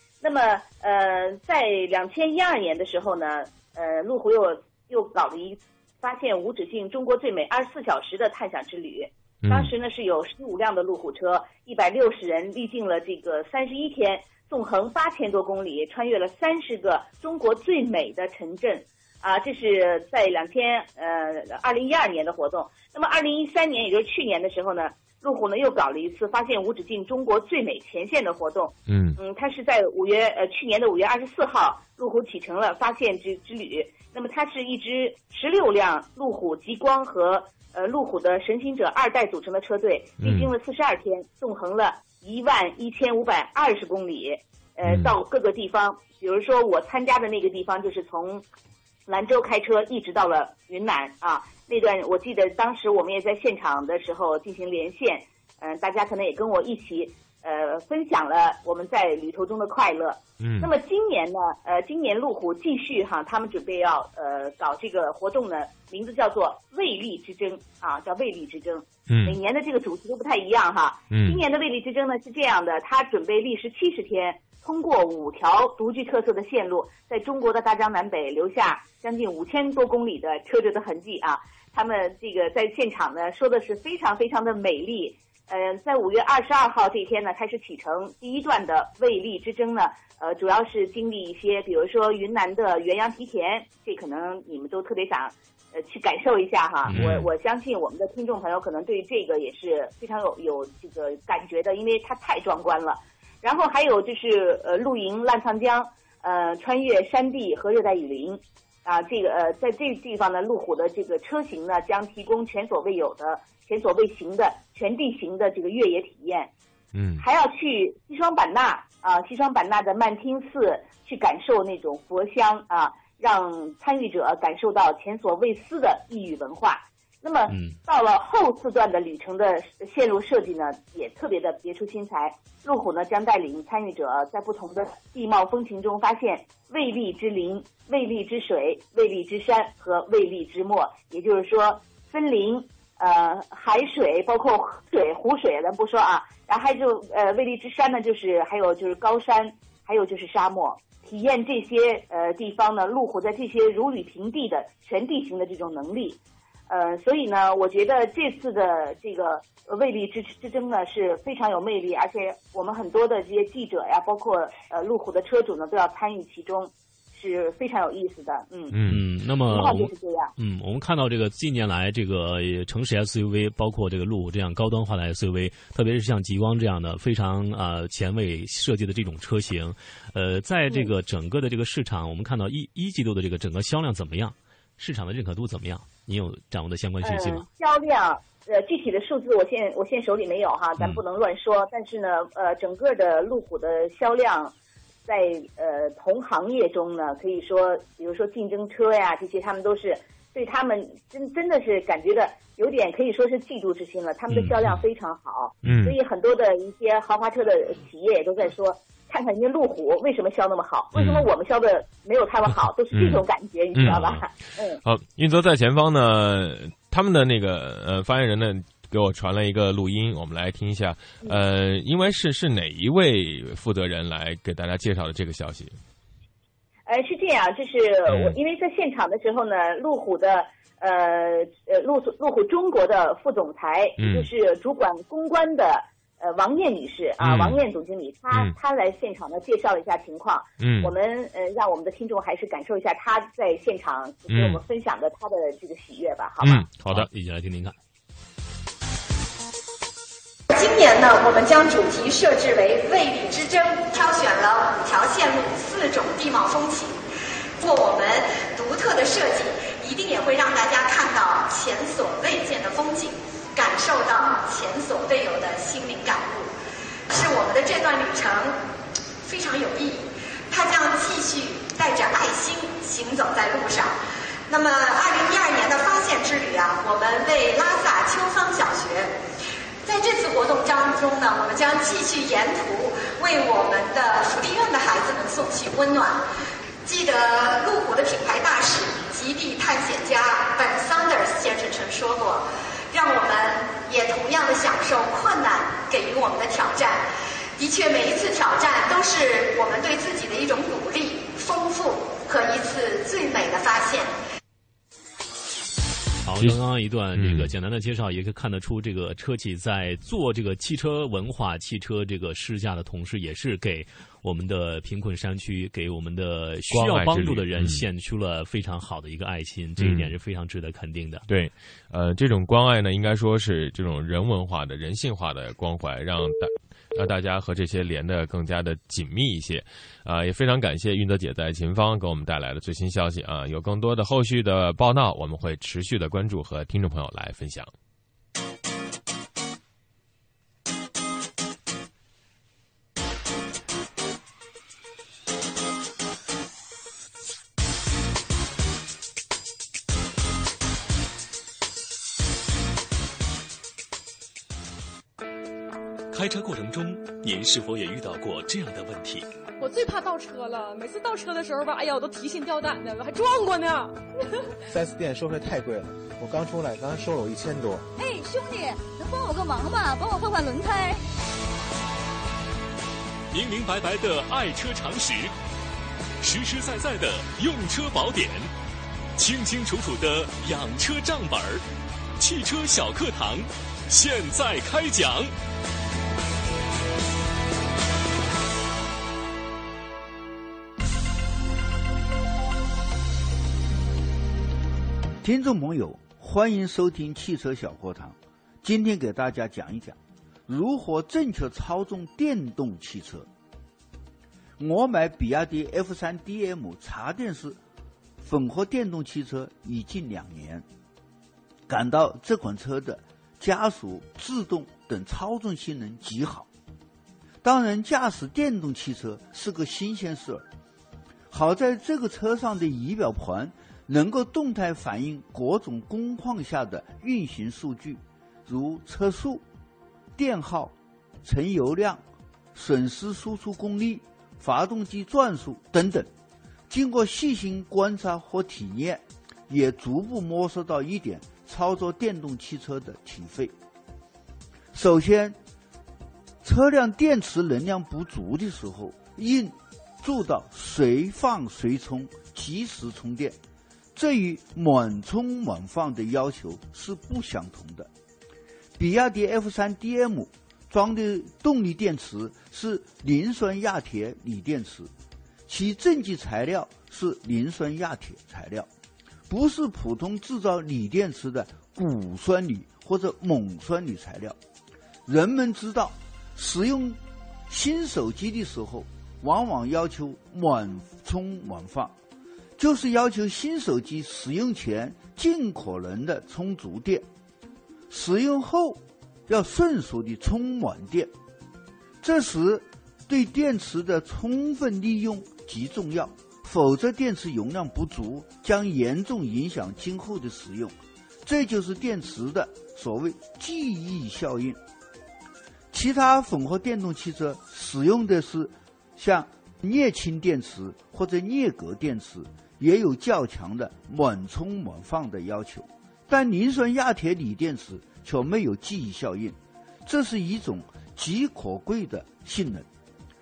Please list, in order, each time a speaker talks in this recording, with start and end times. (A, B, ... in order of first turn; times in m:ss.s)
0:00.2-0:48.4 A
0:09.4-0:09.7 B
0:28.9-0:29.2 B
0:40.2-0:40.5 B
0:44.8-0:45.2 B
0:49.1-1:56.5 A
1:00.4-1:00.7 B
1:09.1-1:09.4 B
1:11.1-1:11.4 B
1:36.9-1:37.3 C
1:56.9-1:57.2 B
1:57.2-2:48.8 A
2:07.5-2:07.8 C
2:48.7-2:49.1 B
2:48.8-3:07.5 C
2:49.5-2:50.3 A
3:07.0-3:14.5 A
3:15.1-3:34.8 A
3:25.6-3:26.0 B
3:31.0-3:31.3 B
3:32.9-3:33.2 B
3:33.8-3:34.2 B
3:34.8-3:45.8 B
3:46.9-4:06.7 A
3:48.1-3:48.4 B
3:54.0-3:54.3 B
3:57.2-3:57.6 B
4:00.6-4:00.9 B
4:04.3-4:04.6 B
4:06.4-4:07.1 B
4:06.9-4:07.8 C
4:10.5-4:17.0 D
4:17.6-4:26.5 D
4:27.1-4:28.6 D
4:29.2-4:34.0 D
4:34.5-4:39.1 D
4:39.8-4:46.2 D
4:46.8-4:57.0 D
4:57.6-5:04.1 D
5:06.2-5:21.3 C
5:07.2-5:07.5 B
5:16.7-5:17.8 B
5:19.8-5:20.1 B
5:21.3-5:37.7 B
5:56.1-5:59.3 E
5:59.6-6:04.0 F
6:04.7-6:07.9 G
6:08.0-6:11.0 H
6:13.3-6:15.3 E
6:16.2-6:18.5 E
6:19.2-6:21.6 E
6:22.2-6:25.3 E
6:35.2-6:40.0 I
6:40.5-6:43.3 I
6:44.6-6:47.6 I
6:48.2-6:50.6 I
6:51.7-6:56.5 I
6:57.4-7:00.4 I
7:01.3-7:09.4 I
7:10.2-7:10.7 I
7:11.2-7:12.0 I
7:12.6-7:16.1 I
7:16.7-7:23.5 I
7:24.7-7:25.4 I
7:26.4-7:33.4 I
7:34.0-7:37.9 I
7:38.8-7:44.9 I
7:45.5-7:48.7 I
7:49.3-7:54.4 I
7:55.1-7:57.0 I
7:57.5-8:01.9 I
8:02.6-8:07.0 I
8:07.9-8:11.1 I
8:12.0-8:20.7 I
8:21.2-8:24.6 I
8:25.7-8:42.7 I